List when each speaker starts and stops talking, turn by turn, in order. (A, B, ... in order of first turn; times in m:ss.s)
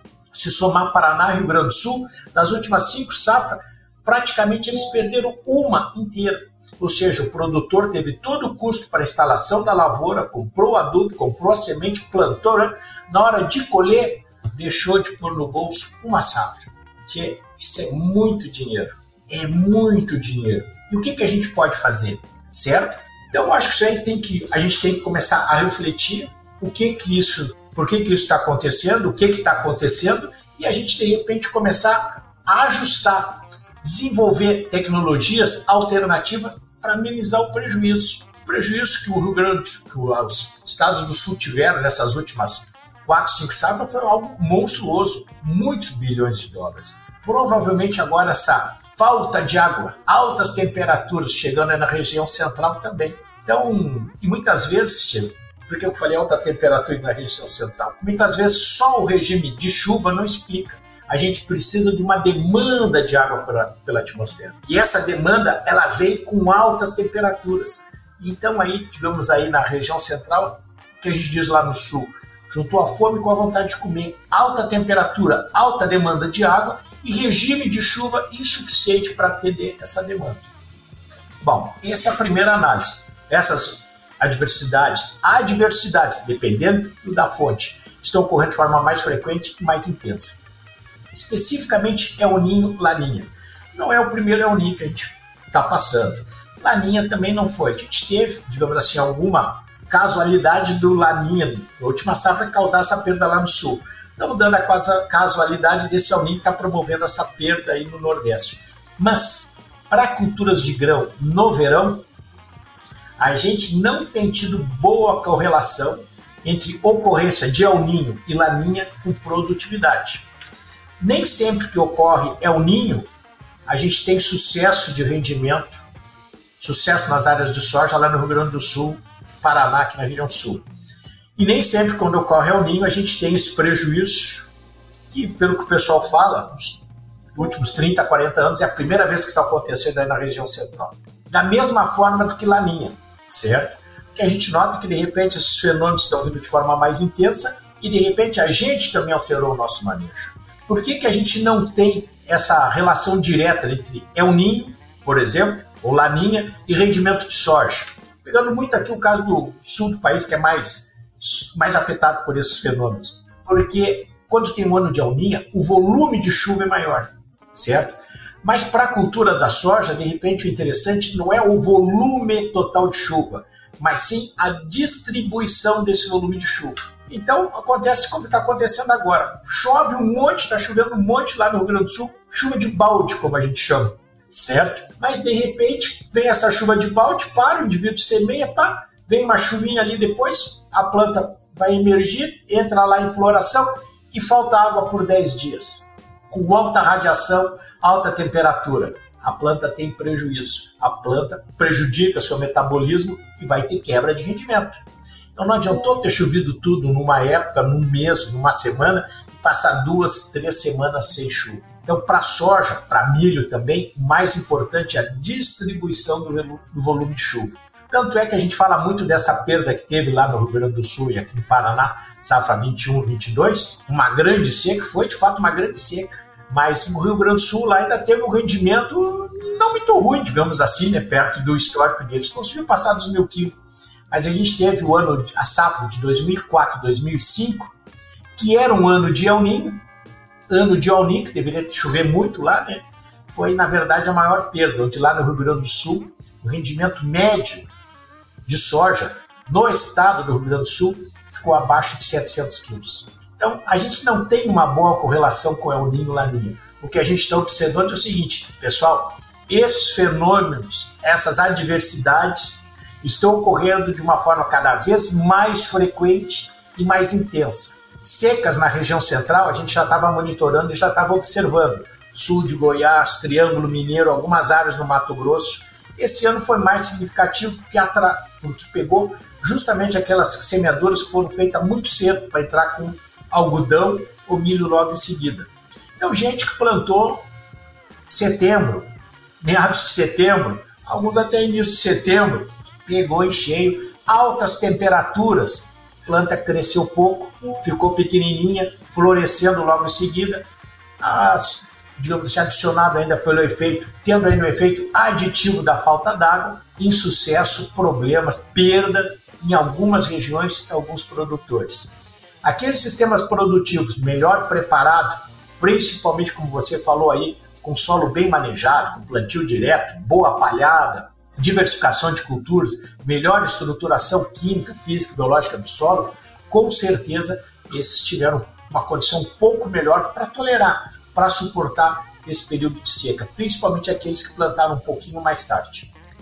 0:00.3-1:20.5 A
1:21.4-1:30.4 A
1:31.1-1:52.1 A
1:53.2-2:00.3 A
2:01.0-2:03.1 A
2:03.7-2:05.8 A
2:06.6-2:10.7 A
2:11.4-2:14.5 A
2:15.1-2:16.8 A
2:17.4-3:24.8 A
3:25.4-3:53.6 A
3:54.1-3:57.8 A
3:58.4-3:59.8 A
4:00.5-4:07.6 A
4:08.5-4:47.3 A
4:48.1-5:00.4 A
5:01.0-5:11.9 A
5:12.4-5:35.9 A